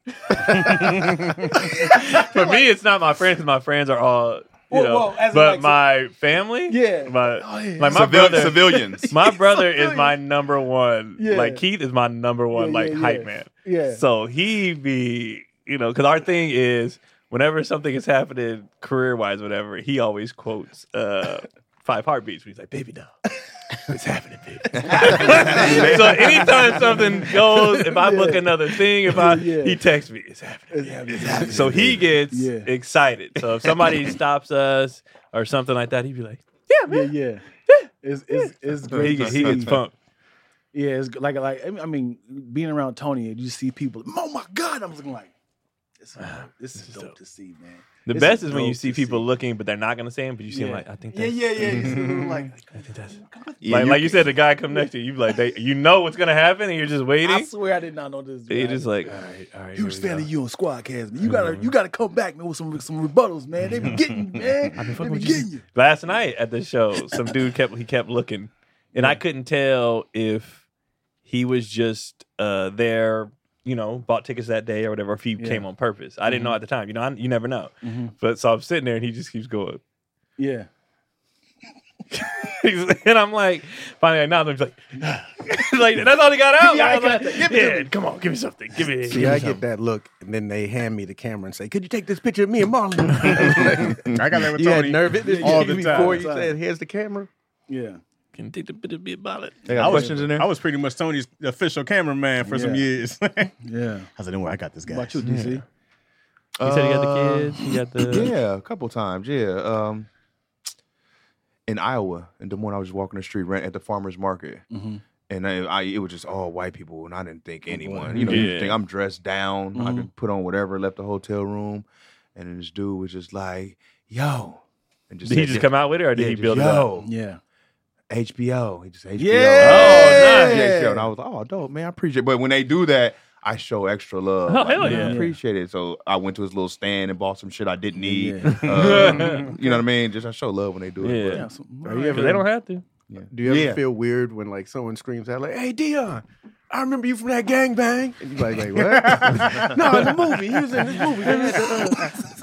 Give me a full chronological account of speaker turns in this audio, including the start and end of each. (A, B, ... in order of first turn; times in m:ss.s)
0:00.2-0:02.7 A
0:00.5-0:01.5 B
0:01.4-0:23.1 C
0:04.7-0:05.8 A
0:06.7-0:10.2 A
0:07.8-0:09.1 D
0:11.2-0:11.6 A
0:12.5-0:14.0 A
0:23.9-0:37.1 C
0:24.8-0:26.4 D
0:24.8-0:29.8 A
0:30.7-0:32.7 A
0:31.4-0:32.0 D
0:36.9-0:37.4 A
0:37.7-0:39.9 C
0:38.0-0:39.8 A
0:38.8-0:39.8 D
0:40.7-0:45.3 A
0:46.0-0:49.3 A
0:46.2-0:47.1 C
0:48.1-0:52.0 C
0:50.5-0:53.6 A
0:51.6-0:52.5 B
0:52.7-0:57.5 C
0:53.6-0:54.3 D
0:57.2-1:05.6 A
0:58.5-1:00.3 C
1:01.2-1:01.7 C
1:03.7-1:04.7 B
1:04.8-1:10.6 C
1:08.9-1:09.2 A
1:11.2-1:19.8 C
1:15.4-1:15.7 A
1:16.3-1:16.6 A
1:17.8-1:18.1 A
1:20.4-1:20.7 A
1:22.1-1:29.6 C
1:26.6-1:27.9 A
1:29.1-1:37.3 E
1:33.3-1:36.3 B
1:33.8-1:34.2 D
1:35.2-1:36.5 A
1:37.7-1:38.0 A
1:38.4-1:40.0 C
1:39.7-1:40.5 D
1:39.7-1:43.6 B
1:42.4-1:42.9 A
1:43.6-1:44.1 A
1:44.2-1:45.2 B
1:44.9-1:45.6 A
1:45.2-1:45.6 C
1:46.6-1:50.1 D
1:46.6-1:48.3 C
1:51.7-1:54.6 D
1:54.7-1:55.0 A
1:55.3-2:07.1 D
1:57.7-1:58.5 A
1:58.2-1:58.8 C
1:59.7-2:00.1 A
2:05.2-2:06.9 C
2:07.0-2:07.4 A
2:08.1-2:21.5 D
2:09.2-2:11.1 A
2:09.6-2:10.6 C
2:14.5-2:15.2 C
2:14.8-2:15.4 A
2:18.0-2:19.8 A
2:18.5-2:19.5 C
2:18.9-2:19.3 B
2:21.0-2:22.8 C
2:21.3-2:22.4 A
2:23.1-2:23.8 D
2:23.3-2:32.2 E
2:28.7-2:30.4 B
2:31.2-2:32.0 C